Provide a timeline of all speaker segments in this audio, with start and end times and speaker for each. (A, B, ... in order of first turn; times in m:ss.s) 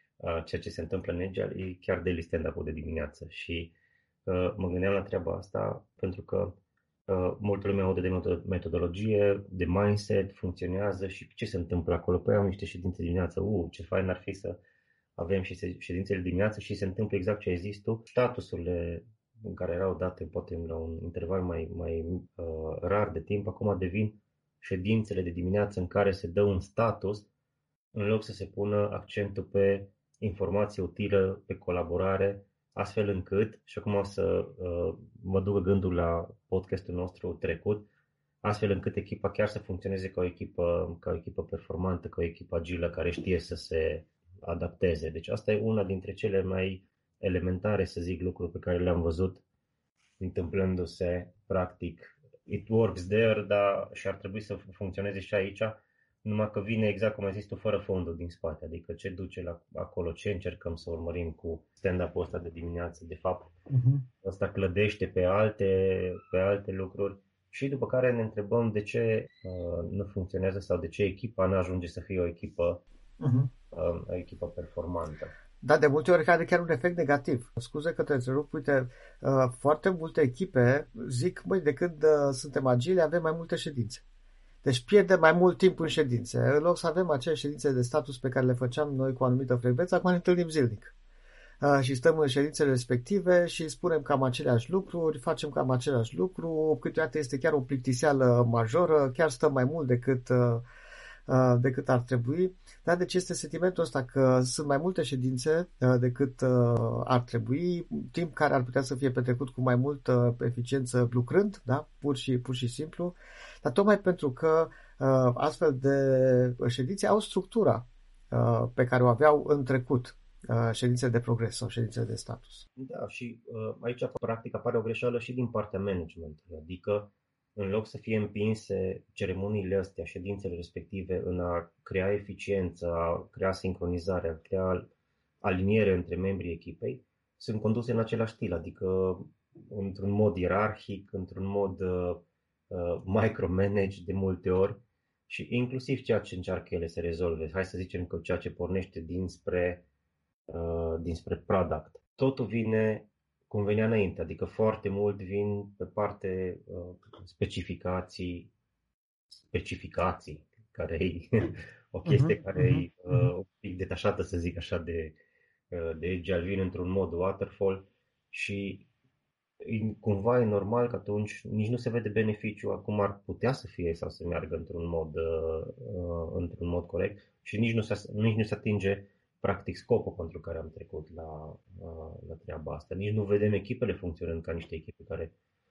0:00.2-0:03.7 A
0:04.2-0:14.6 A
0:15.2-0:27.3 A
0:27.9-0:37.9 A
0:38.4-0:49.4 A
0:50.2-1:03.5 A
1:03.7-1:04.1 B
1:04.2-1:12.8 A
1:13.2-1:13.5 B
1:13.7-1:15.3 A
1:15.6-1:24.0 B
1:24.6-1:30.9 B
1:31.6-1:40.6 B
1:41.3-2:02.6 B
2:02.8-2:14.9 A
2:15.4-2:29.8 A
2:30.5-2:38.5 A
2:39.3-2:45.2 A
2:42.1-2:43.3 B
2:45.7-2:48.9 A
2:49.6-3:05.3 A